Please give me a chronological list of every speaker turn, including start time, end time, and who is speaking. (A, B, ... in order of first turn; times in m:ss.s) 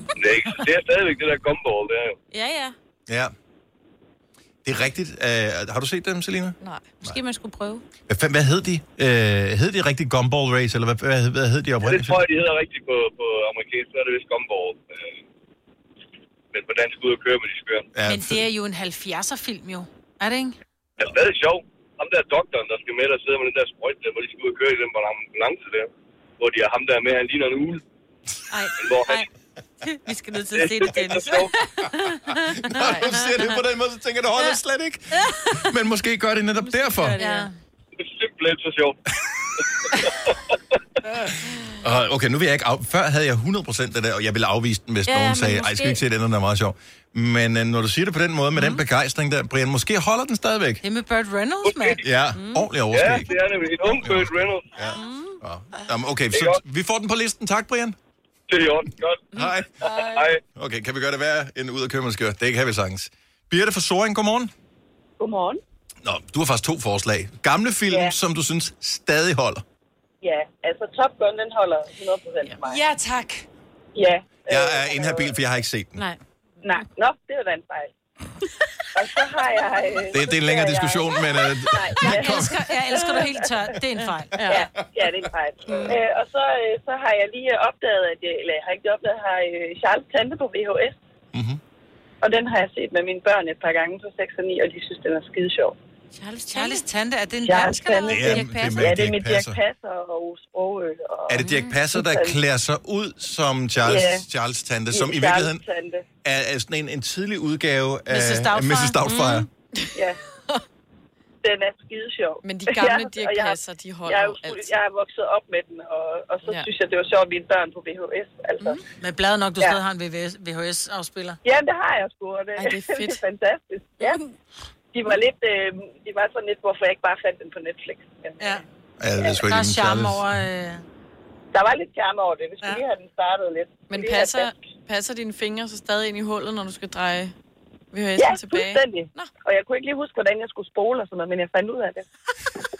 0:00.2-0:02.2 A
0:02.3-0:02.8 B
0:03.1-0:03.3 C
0:04.6-0:07.2 C
0:06.6-0:06.9 D
0:07.0-0:07.8 B
0:08.1-0:12.2 C
0:11.8-0:15.1 A
0:16.5-0:17.9 A
0:17.9-0:18.4 C
0:18.0-0:20.6 E
0:21.0-0:27.8 A
0:28.5-0:29.3 B
0:28.8-0:29.2 A
0:29.9-0:33.4 B
0:30.5-0:31.5 A
0:32.6-0:37.2 C
0:36.6-0:37.5 B
0:37.2-0:37.5 E
0:38.0-0:39.0 A
0:41.8-0:50.8 C
0:45.1-0:46.0 B
0:50.8-0:52.0 E
0:51.6-0:52.0 A
0:52.0-0:53.3 C
0:52.3-0:52.7 B
0:52.9-0:54.7 A
0:53.8-0:58.0 C
0:54.9-0:55.4 B
0:56.3-0:56.6 A
0:58.5-1:00.4 A
0:59.3-0:59.7 C
1:00.5-1:04.5 C
1:05.2-1:05.6 F
1:06.0-1:09.6 C
1:10.2-1:12.8 F
1:12.6-1:13.4 E
1:13.9-1:15.4 F
1:14.5-1:16.0 C
1:16.6-1:17.9 F
1:18.9-1:22.4 F
1:20.1-1:22.6 C
1:22.0-1:22.7 B
1:22.0-1:24.7 E
1:22.9-1:23.4 F
1:24.4-1:31.0 F
1:25.7-1:26.0 C
1:31.3-1:31.6 C
1:32.2-1:35.8 F
1:36.1-1:36.8 B
1:36.5-1:38.4 E
1:37.4-1:42.4 F
1:37.8-1:39.1 B
1:38.1-1:39.6 C
1:41.3-1:45.6 C
1:41.4-1:41.8 B
1:43.8-1:44.2 F
1:44.9-1:46.0 F
1:46.2-1:49.5 C
1:48.1-1:49.4 E
1:51.4-1:58.8 F
1:52.4-1:54.7 D
1:59.0-2:01.4 E
2:01.4-2:04.2 F
2:02.6-2:03.2 D
2:04.9-2:08.6 F
2:09.0-2:10.2 C
2:09.5-2:10.8 E
2:11.5-2:14.5 F
2:13.9-2:17.3 D
2:17.9-2:19.3 D
2:18.2-2:22.0 F